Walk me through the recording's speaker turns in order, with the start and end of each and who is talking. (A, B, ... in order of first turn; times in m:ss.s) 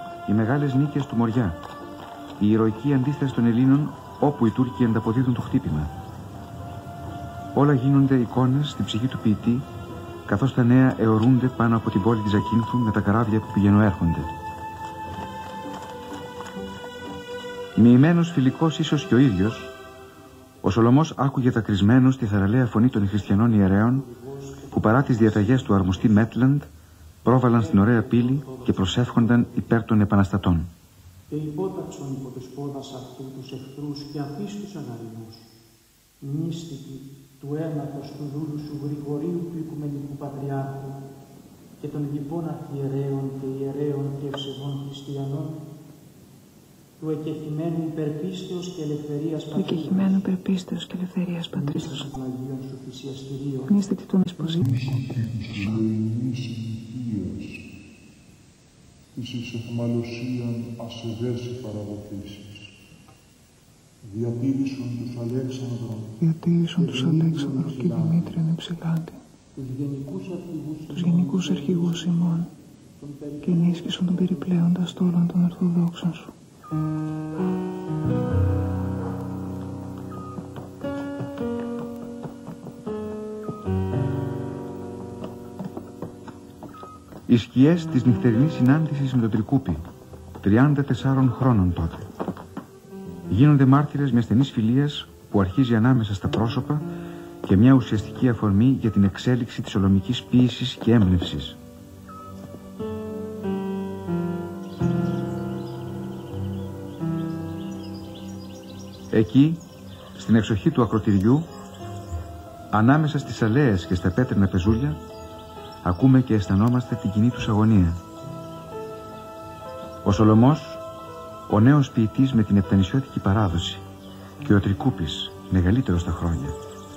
0:00.2-0:01.6 A
0:02.4-0:05.9 A
0:07.5-0:09.7 A
0:10.2-0:14.3 A
0:17.8-0:19.8 A
0:20.6-0:24.1 A
0:23.8-0:26.2 B
0:24.7-0:26.7 A
0:27.2-0:30.7 A
0:27.5-0:29.6 B
0:31.3-0:35.4 B
0:36.2-0:41.0 B
0:41.8-0:45.6 B
0:47.0-0:50.0 B
0:49.5-0:52.1 C
0:51.8-0:53.7 B
0:53.7-0:54.9 C
0:54.6-0:57.6 D
0:59.1-1:02.7 D
1:04.0-1:06.2 D
1:06.2-1:09.2 C
1:06.9-1:08.3 D
1:09.6-1:12.0 B
1:10.9-1:12.5 C
1:13.0-1:13.8 B
1:13.4-1:16.3 C
1:27.3-1:29.8 A
1:30.4-1:32.0 A
1:33.3-1:36.9 A
1:37.4-1:41.6 A
1:49.1-1:49.6 A
1:50.2-1:51.5 A
1:52.7-1:55.0 A
1:55.8-1:58.0 A
2:00.0-2:00.8 A
2:01.5-2:03.8 A
2:04.4-2:06.6 A